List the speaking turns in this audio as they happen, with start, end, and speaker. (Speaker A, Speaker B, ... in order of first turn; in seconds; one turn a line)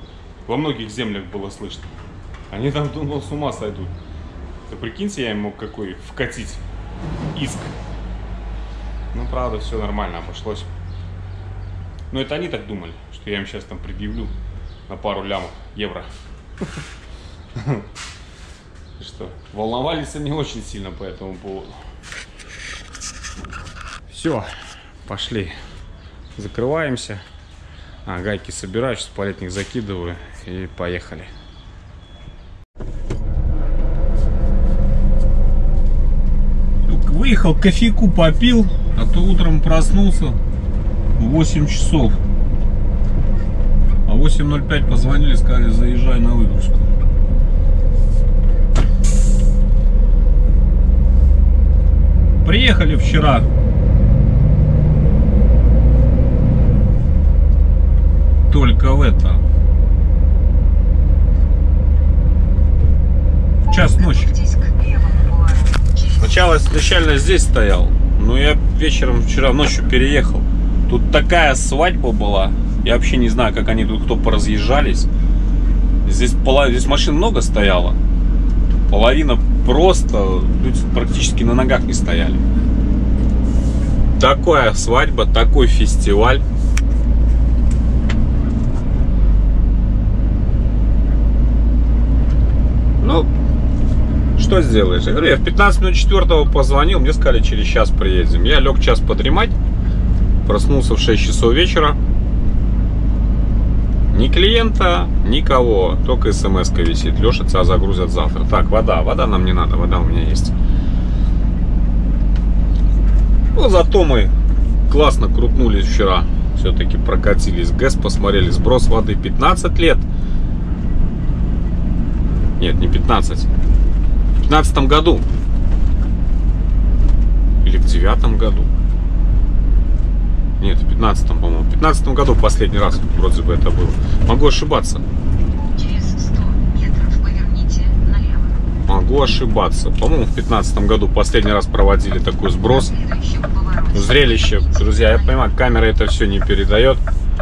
Speaker A: 0.5-1.9
Speaker A: 2.5-3.9
Speaker A: 4.7-6.6
Speaker A: 7.3-7.7
Speaker A: 9.1-10.7
Speaker A: 12.1-14.3
Speaker A: 14.9-16.1
Speaker A: 17.6-17.8
Speaker A: 19.0-21.8
Speaker A: 24.1-24.5
Speaker A: 25.1-25.5
Speaker A: 26.4-27.2
Speaker A: 28.0-31.3
Speaker A: 36.8-40.4
Speaker A: 41.2-42.2
Speaker A: 44.0-46.9
Speaker A: 52.4-53.5
Speaker A: 58.5-59.4
Speaker A: 63.7-64.3
Speaker B: 63.7-66.7
Speaker A: 66.2-75.1
Speaker A: 76.0-78.0
Speaker A: 78.9-82.4
Speaker A: 84.1-86.4
Speaker A: 93.0-93.3
Speaker A: 94.3-99.5
Speaker A: 100.4-102.0
Speaker A: 104.1-110.5
Speaker A: 113.5-114.3
Speaker A: 114.9-120.0
Speaker A: 122.6-123.5
Speaker A: 124.4-125.3
Speaker A: 127.6-128.7
Speaker A: 130.6-135.0
Speaker B: 135.7-138.7
Speaker A: 138.9-142.9
Speaker B: 142.6-145.7
Speaker A: 143.9-147.0